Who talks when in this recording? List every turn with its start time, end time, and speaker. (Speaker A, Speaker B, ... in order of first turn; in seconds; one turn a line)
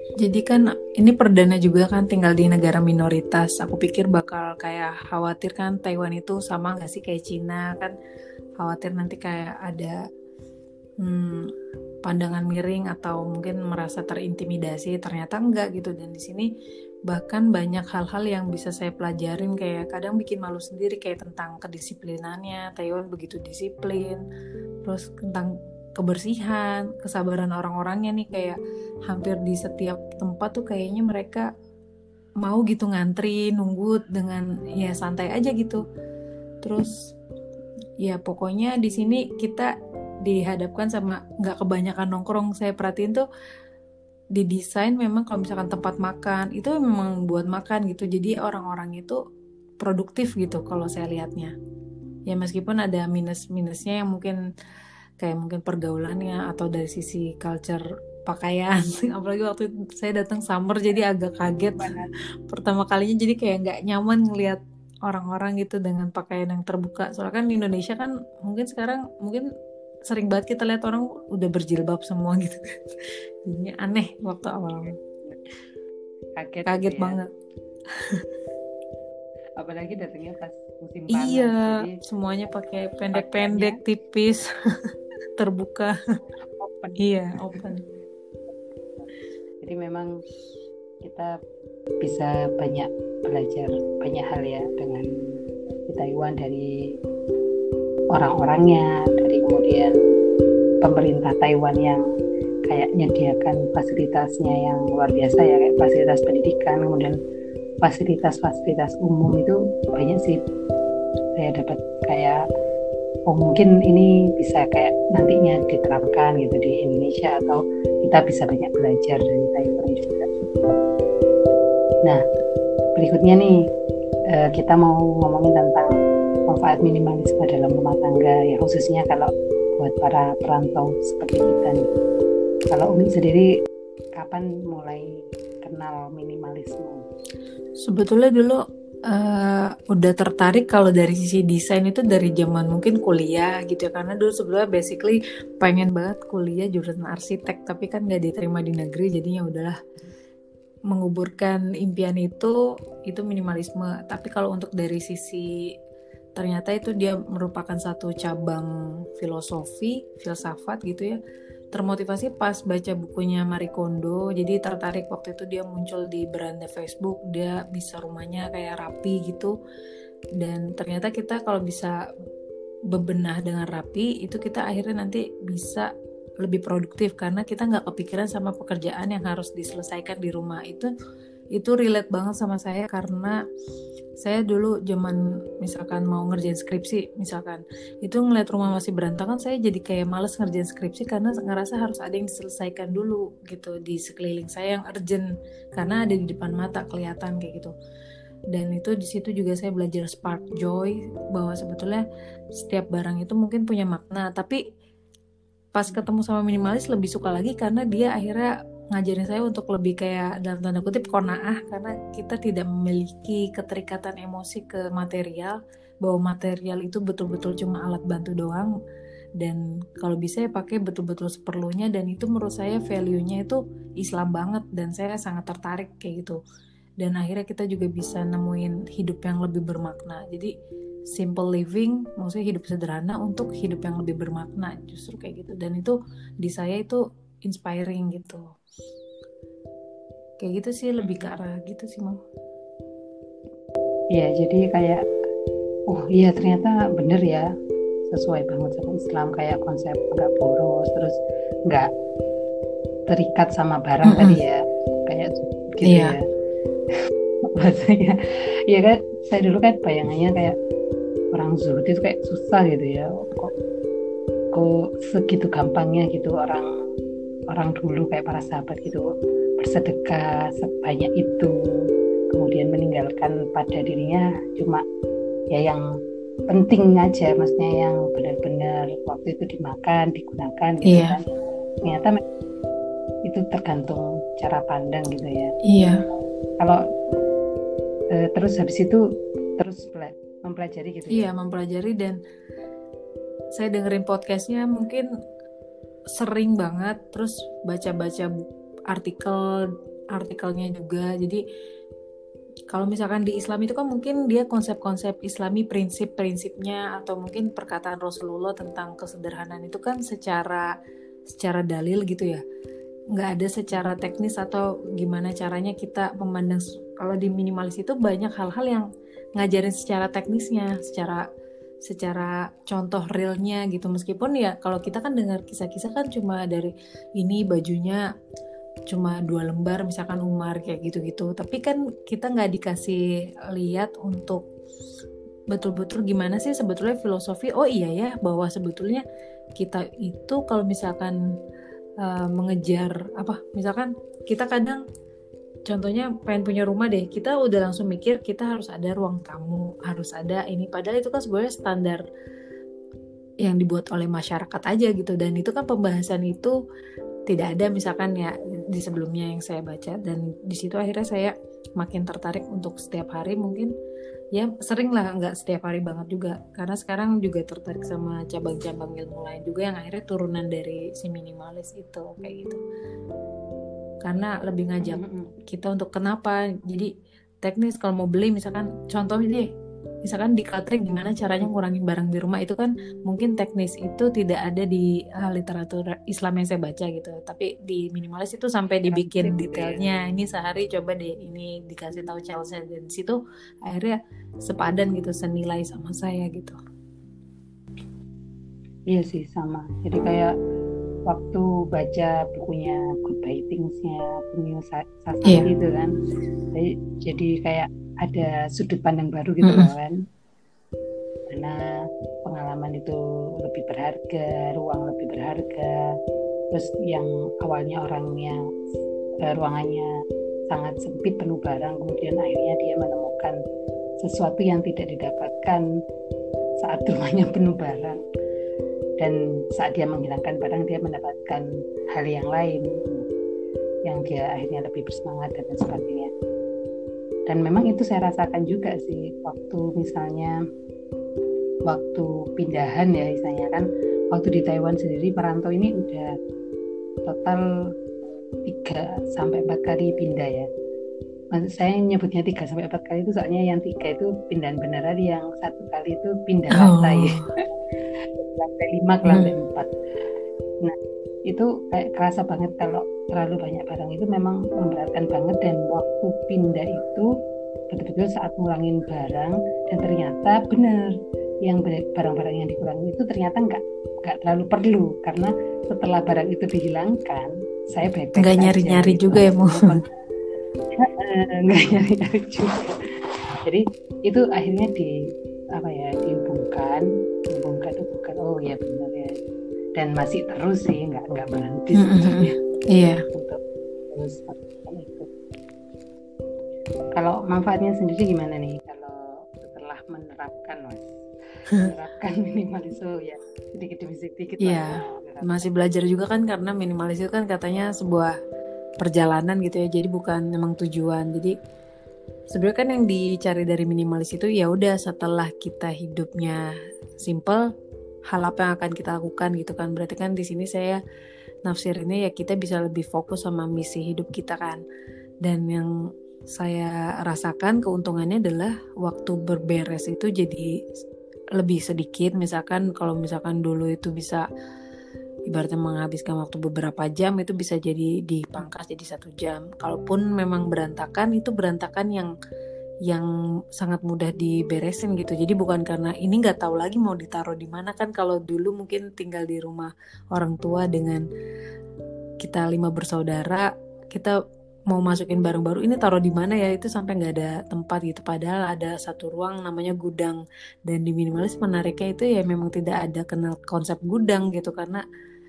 Speaker A: 0.2-7.9
Speaker A: 8.6-10.0
Speaker A: 11.0-11.5
Speaker A: 12.1-16.5
Speaker A: 17.1-24.2
Speaker A: 24.8-31.5
Speaker A: 32.4-35.9
Speaker A: 36.6-37.1
Speaker A: 38.0-39.7
Speaker A: 40.2-43.2
Speaker A: 44.4-49.2
Speaker A: 49.8-51.5
Speaker A: 52.3-54.4
Speaker A: 55.2-69.5
Speaker B: 61.8-62.1
Speaker A: 70.1-75.0
Speaker B: 76.4-77.2
Speaker A: 76.7-77.3
Speaker B: 79.6-82.0
Speaker A: 81.1-84.5
Speaker B: 83.1-83.8
Speaker A: 85.4-86.0
Speaker B: 86.5-87.7
Speaker A: 87.0-87.8
Speaker B: 89.6-90.1
Speaker B: 91.0-91.3
Speaker B: 92.0-95.1
Speaker B: 95.9-96.7
Speaker B: 98.1-100.0
Speaker B: 100.8-102.0
Speaker B: 102.7-107.2
Speaker B: 107.8-110.4
Speaker B: 111.4-112.4
Speaker B: 113.3-120.5
Speaker B: 123.0-123.5
Speaker B: 124.3-125.9
Speaker B: 126.5-131.9
Speaker B: 132.7-133.5
Speaker B: 134.2-137.1
Speaker A: 137.8-149.8
Speaker A: 150.9-152.6
Speaker A: 153.1-155.5
Speaker A: 156.4-161.2
Speaker A: 161.7-169.5
Speaker A: 170.4-172.0
Speaker A: 172.9-175.9
Speaker A: 176.4-180.9
Speaker A: 181.6-183.4
Speaker A: 184.2-197.7
Speaker A: 198.5-202.0
Speaker A: 202.6-204.6
Speaker A: 205.7-218.7
Speaker A: 219.4-226.4
Speaker A: 227.0-230.5
Speaker A: 231.1-238.4
Speaker A: 240.4-242.2
Speaker B: 241.0-241.3
Speaker B: 244.1-245.0
Speaker B: 245.9-247.4
Speaker B: 248.1-251.2
Speaker B: 253.1-256.2
Speaker A: 254.1-254.4
Speaker A: 255.8-256.1
Speaker B: 257.5-260.6
Speaker B: 261.3-263.5
Speaker B: 264.5-266.7
Speaker B: 267.5-269.1
Speaker B: 269.6-271.5
Speaker B: 272.3-274.8
Speaker B: 275.5-275.8
Speaker B: 276.5-281.2
Speaker A: 280.9-281.2
Speaker B: 281.9-282.2
Speaker B: 283.3-285.6
Speaker A: 285.7-286.0
Speaker B: 288.1-289.0
Speaker B: 289.6-291.3
Speaker A: 291.1-292.2
Speaker A: 293.6-295.1
Speaker A: 296.1-299.6
Speaker A: 300.1-301.4
Speaker A: 302.7-310.7
Speaker A: 311.3-312.4
Speaker A: 313.1-318.9
Speaker B: 313.7-314.0
Speaker A: 319.4-321.2
Speaker A: 321.8-328.0
Speaker A: 328.9-333.0
Speaker A: 333.5-334.5
Speaker A: 335.5-339.0
Speaker A: 339.6-341.2
Speaker A: 342.0-344.8
Speaker A: 345.7-352.1
Speaker A: 353.4-356.5
Speaker A: 357.3-363.7
Speaker A: 364.4-372.6
Speaker A: 374.0-376.9
Speaker B: 374.8-375.3
Speaker A: 377.4-379.5
Speaker A: 380.0-396.6
Speaker B: 388.8-389.9
Speaker B: 398.9-400.3
Speaker B: 401.1-405.9
Speaker B: 406.5-410.0
Speaker A: 409.4-409.7
Speaker B: 411.3-411.6
Speaker B: 412.3-415.7
Speaker B: 416.5-418.4
Speaker B: 419.2-419.9
Speaker B: 420.5-423.4
Speaker B: 424.0-425.6
Speaker B: 426.6-428.0
Speaker B: 429.0-433.1
Speaker B: 433.9-436.1
Speaker B: 437.3-440.3
Speaker B: 441.7-446.1
Speaker B: 447.1-447.4
Speaker B: 448.5-450.5
Speaker B: 451.3-457.2
Speaker A: 456.6-457.3
Speaker B: 458.2-459.7
Speaker B: 461.3-467.1
Speaker B: 467.7-470.9
Speaker B: 471.5-479.9
Speaker A: 478.2-479.7
Speaker B: 480.8-484.9
Speaker B: 485.6-489.1
Speaker B: 489.8-492.4
Speaker A: 491.8-493.0
Speaker B: 493.1-493.4
Speaker B: 493.9-495.1
Speaker B: 497.0-505.5
Speaker A: 504.4-508.1
Speaker A: 508.8-511.3
Speaker A: 512.3-516.4
Speaker A: 517.0-517.4
Speaker A: 518.1-520.8
Speaker A: 521.5-524.6
Speaker A: 525.2-525.7
Speaker A: 526.3-530.5
Speaker A: 531.4-534.2
Speaker A: 535.3-542.1
Speaker A: 543.6-551.0
Speaker A: 552.2-554.1
Speaker A: 554.7-564.8